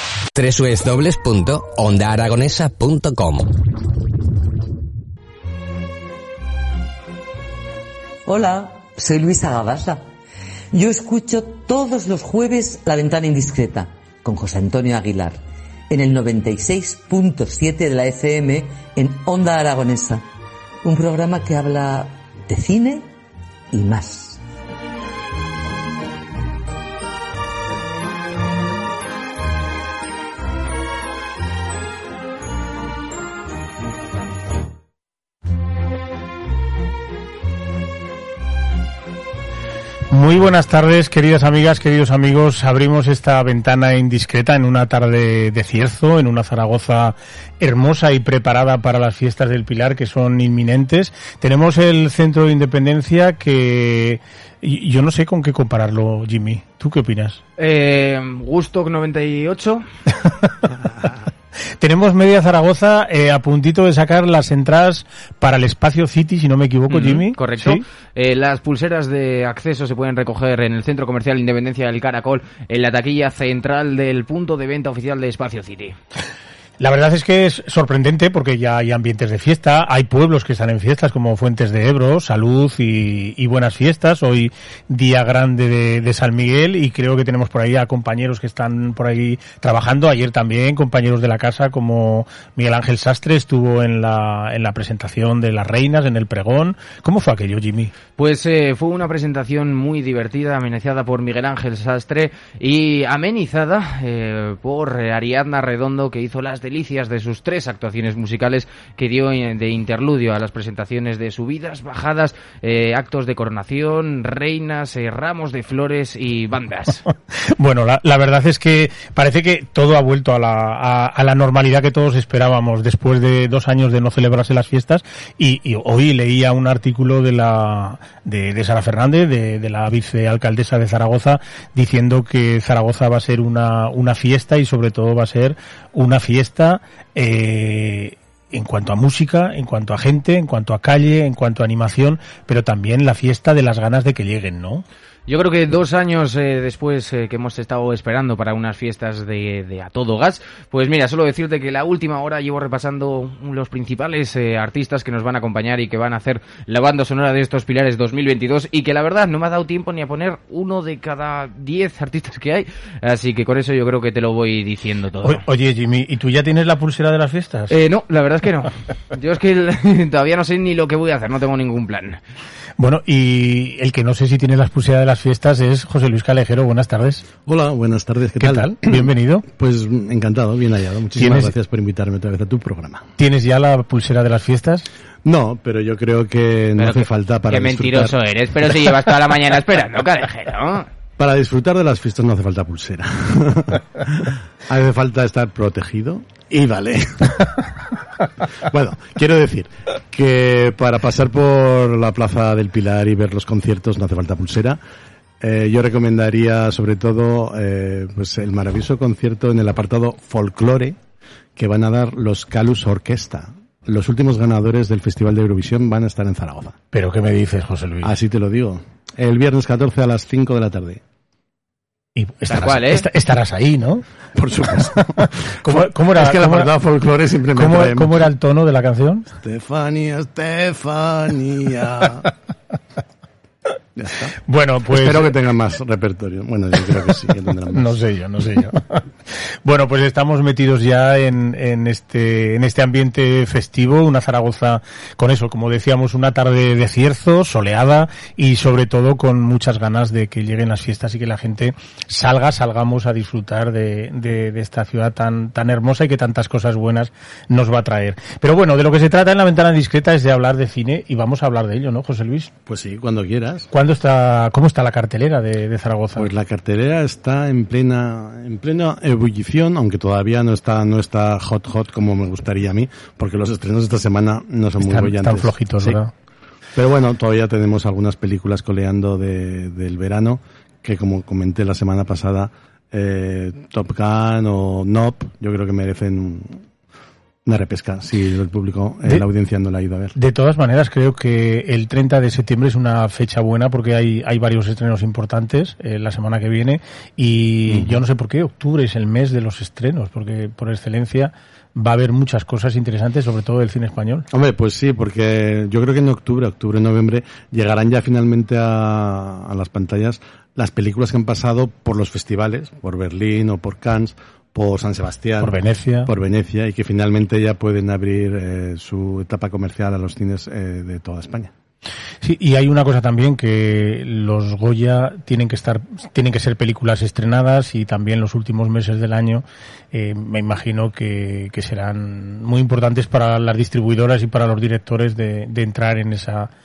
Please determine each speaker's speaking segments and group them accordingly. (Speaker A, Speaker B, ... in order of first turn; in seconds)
Speaker A: 0.3-3.5
Speaker B: 8.2-10.0, 10.7-20.2, 20.8-23.1, 23.7-24.4
Speaker C: 40.1-57.4, 60.2-60.7, 61.8-67.8, 76.8-97.9, 117.4-144.8, 165.2-167.7, 172.8-177.2, 178.4-179.4, 181.2-181.5, 183.2-184.9, 216.9-218.1, 222.2-224.1, 224.7-226.7, 227.5-229.3, 234.4-235.3, 237.7-262.5, 263.7-266.3, 274.8-276.1, 290.1-304.3, 315.4-316.1, 322.2-336.5
Speaker D: 57.6-59.9, 66.9-76.0, 98.2-117.0, 145.3-165.4, 167.7-172.2, 186.8-190.9, 222.5-223.1
Speaker E: 177.4-183.1, 185.2-188.2, 191.2-197.7, 198.4-204.8, 205.4-211.0, 211.6-216.8, 218.0-221.0, 224.3-228.2, 229.4-232.3, 233.9-234.3, 234.9-237.9, 262.6-263.7, 266.1-276.0, 276.7-286.6, 287.4-290.1, 297.7-298.0, 304.3-321.5